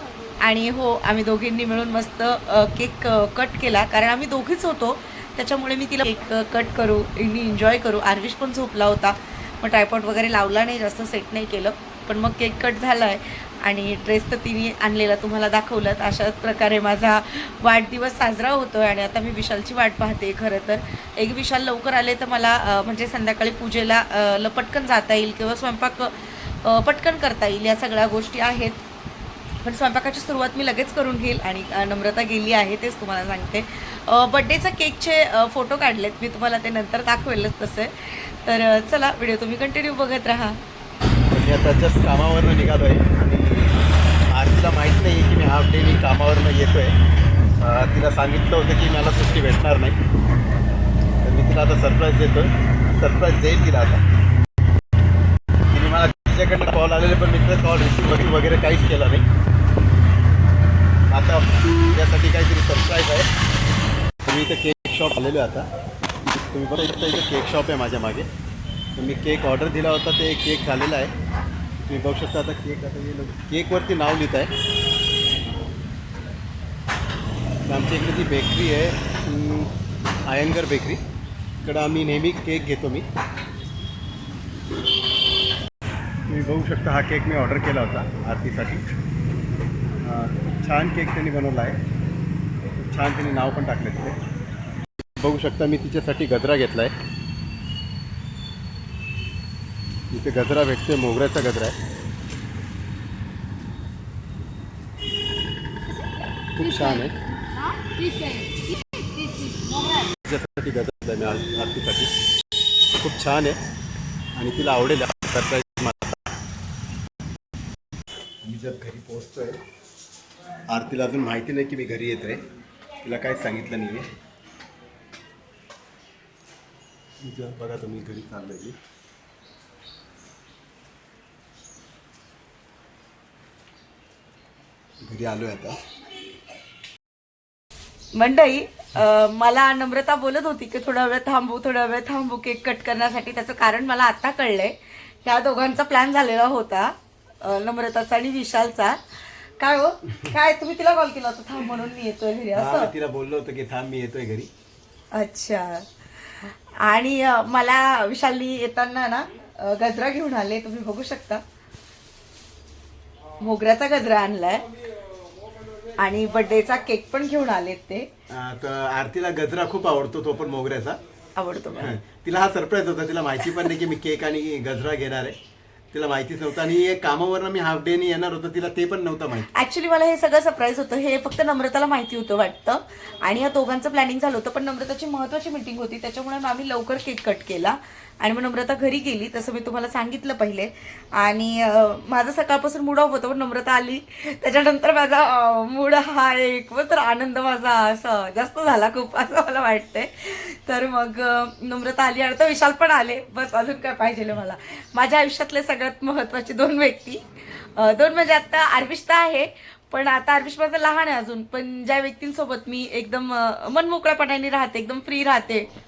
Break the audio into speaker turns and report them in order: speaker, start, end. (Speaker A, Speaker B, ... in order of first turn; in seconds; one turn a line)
Speaker A: 0.4-28.8
Speaker A: 29.6-40.6
Speaker B: 41.3-46.9
Speaker B: 47.6-50.0
Speaker B: 51.2-54.0
Speaker B: 55.7-59.2
Speaker B: 61.1-63.3
Speaker B: 64.2-65.7
Speaker B: 66.5-68.3
Speaker B: 69.0-71.1
Speaker B: 71.8-74.5
Speaker B: 77.7-79.7
Speaker B: 80.2-81.0
Speaker B: 81.6-83.0
Speaker B: 86.3-88.8
Speaker B: 90.0-91.8
Speaker B: 92.8-94.2
Speaker B: 95.2-96.9
Speaker B: 100.1-101.8
Speaker A: 105.9-110.1
Speaker B: 106.5-107.2
Speaker B: 110.2-112.1
Speaker B: 113.0-113.6
Speaker B: 114.3-116.2
Speaker B: 118.4-119.6
Speaker B: 120.7-122.4
Speaker B: 123.0-124.1
Speaker B: 127.2-128.8
Speaker B: 135.0-135.8
Speaker A: 138.1-149.0
Speaker A: 149.6-152.9
Speaker B: 152.5-154.5
Speaker A: 155.1-161.4
Speaker A: 163.4-164.6
Speaker A: 166.0-168.1
Speaker B: 168.3-171.0
Speaker A: 171.3-172.0
Speaker B: 171.7-175.3
Speaker B: 175.9-179.5
Speaker A: 179.5-215.7